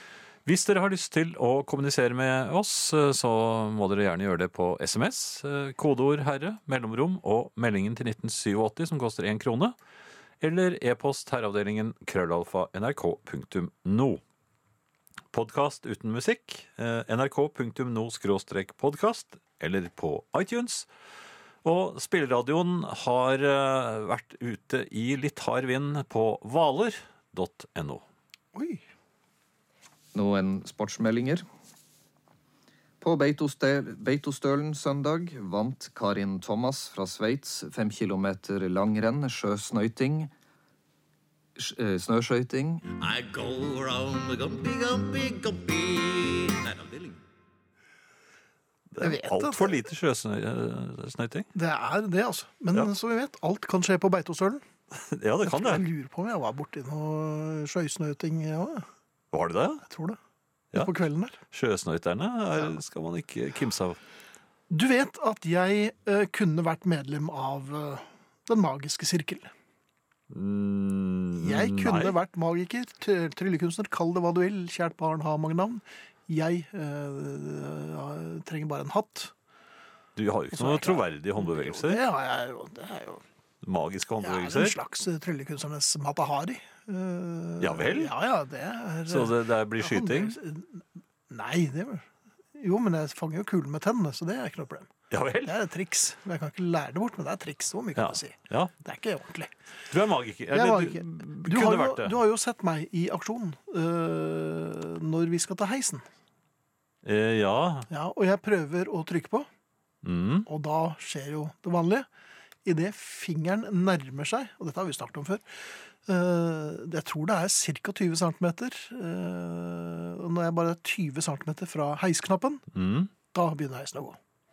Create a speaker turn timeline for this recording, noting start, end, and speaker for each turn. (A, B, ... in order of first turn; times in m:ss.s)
0:00.4-0:09.7 A
0:10.4-0:14.2 A
0:15.3-0:20.9 A
0:21.6-0:28.0 A
0:28.5-0:28.8 B
0:30.1-0:31.4 C
0:33.0-0:40.3 C
0:41.6-0:42.8 C
0:42.9-0:47.2 D
0:48.9-0:51.5 A
0:49.0-0:49.8 B
0:51.5-0:54.7 B
0:54.9-0:55.8 A
0:55.4-0:58.9 B
0:59.3-0:59.8 A
0:59.8-1:00.2 B
1:00.7-1:01.4 B
1:01.5-1:04.0 A
1:04.7-1:09.5 B
1:10.3-1:12.1 A
1:11.4-1:19.3 B
1:20.2-1:22.0 A
1:20.5-1:23.2 B
1:23.6-1:24.8 A
1:24.2-1:34.9 B
1:27.6-1:28.1 A
1:29.1-1:30.3 A
1:35.1-1:35.6 A
1:35.4-1:39.5 B
1:38.0-1:38.7 A
1:39.9-1:42.1 A
1:40.5-1:46.0 B
1:47.0-1:47.9 A
1:47.9-1:49.5 B
1:50.0-1:50.5 A
1:50.4-1:52.1 B
1:52.6-2:02.6 B
2:02.7-2:03.1 A
2:03.3-2:04.2 B